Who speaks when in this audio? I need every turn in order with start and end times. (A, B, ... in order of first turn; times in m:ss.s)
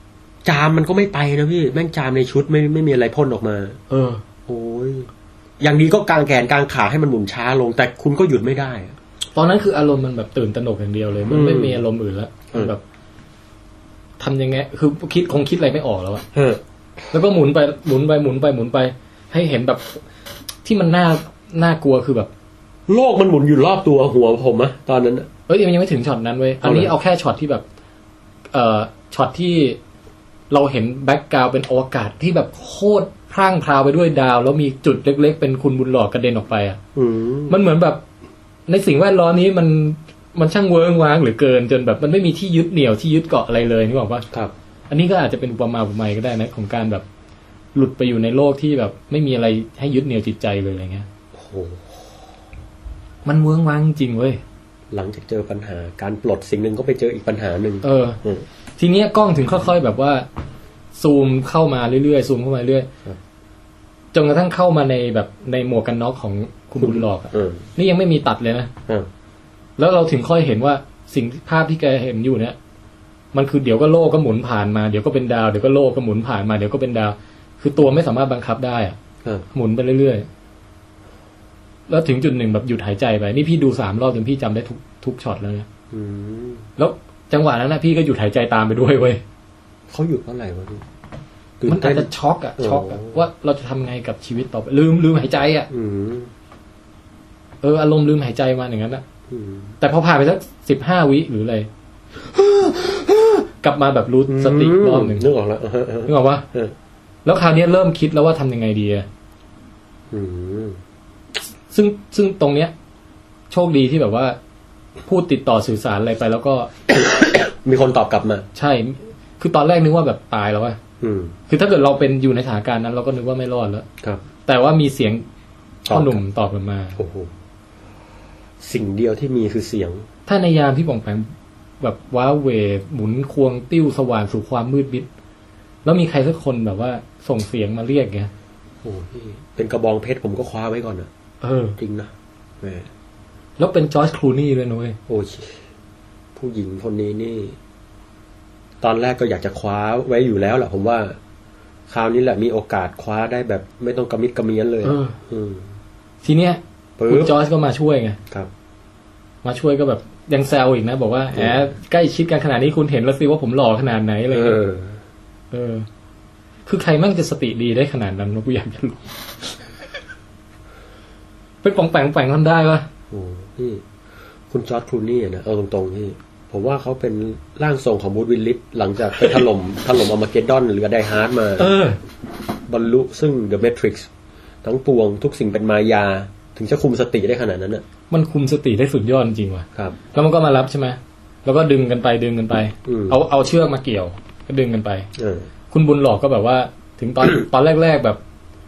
0:00.4-0:03.8 A
0:03.9-0:04.2 B
0:04.4-0:05.1 A
0:05.6-0:09.0 A
0:09.3-0:12.8 B
0:11.3-0:11.8 A
0:14.2-0:16.2 B
0:16.3-0:16.6 A
0:17.1-0:20.0 B
0:20.6-0:22.3 B
0:22.9-0:25.3 A
0:25.5-0:27.6 B
0:26.6-0:26.9 A
0:28.5-0:29.8 B
0:30.5-0:36.8 B
0:36.9-0:37.6 A
0:37.5-0:38.0 B
0:38.7-0:44.2 B
0:44.9-0:47.0 B
0:47.7-0:51.1 B
0:51.3-0:52.0 A
0:53.2-0:54.4 B
0:54.9-0:58.4 A
0:57.8-0:58.2 B
0:58.8-1:00.2 B
1:01.0-1:02.9 B
1:04.1-1:08.7 B
1:06.8-1:07.6 A
1:09.8-1:12.6 B
1:13.3-1:19.0 B
1:19.5-1:20.3 B
1:21.9-1:25.7 B
1:25.9-1:26.7 A
1:26.8-1:29.2 B
1:29.9-1:30.8 A
1:31.6-1:33.2 A
1:31.7-1:35.7 B
1:35.7-1:36.3 A
1:37.6-1:39.0 B
1:39.3-1:39.7 A
1:39.8-1:41.7 B
1:42.3-1:45.2 B
1:44.3-1:46.7 A
1:46.0-1:46.4 B
1:47.2-1:49.1 B
1:50.1-1:50.8 A
1:51.7-1:52.7 B
1:53.5-1:54.4 B
1:55.0-1:56.7 B
1:56.9-1:58.4 A
1:58.5-2:00.8 B
2:01.0-2:01.3 A
2:01.5-2:03.8 B
2:04.4-2:05.2 B
2:05.9-2:06.2 A
2:05.9-2:07.0 B
2:07.0-2:07.3 A
2:08.6-2:10.0 A
2:10.3-2:11.3 B
2:11.8-2:15.1 B
2:15.8-2:18.3 B
2:18.8-2:21.1 A
2:21.4-2:21.8 B
2:21.8-2:22.9 A
2:23.6-2:25.0 B
2:25.1-2:25.6 A
2:26.3-2:27.6 A
2:28.8-2:31.2 A
2:31.9-2:35.7 A
2:34.8-2:35.2 B
2:36.2-2:38.2 B
2:37.0-2:37.3 A
2:39.4-2:44.6 B
2:41.3-2:41.7 A
2:44.3-2:45.0 A
2:45.5-2:45.9 B
2:46.6-2:49.6 B
2:51.6-2:52.9 B
2:53.1-2:53.8 A
2:54.5-3:01.7 A
3:01.6-3:02.0 B
3:02.7-3:04.1 A
3:04.6-3:07.8 A
3:08.1-3:15.1 B
3:12.8-3:13.2 A
3:15.2-3:15.5 A
3:15.7-3:18.2 B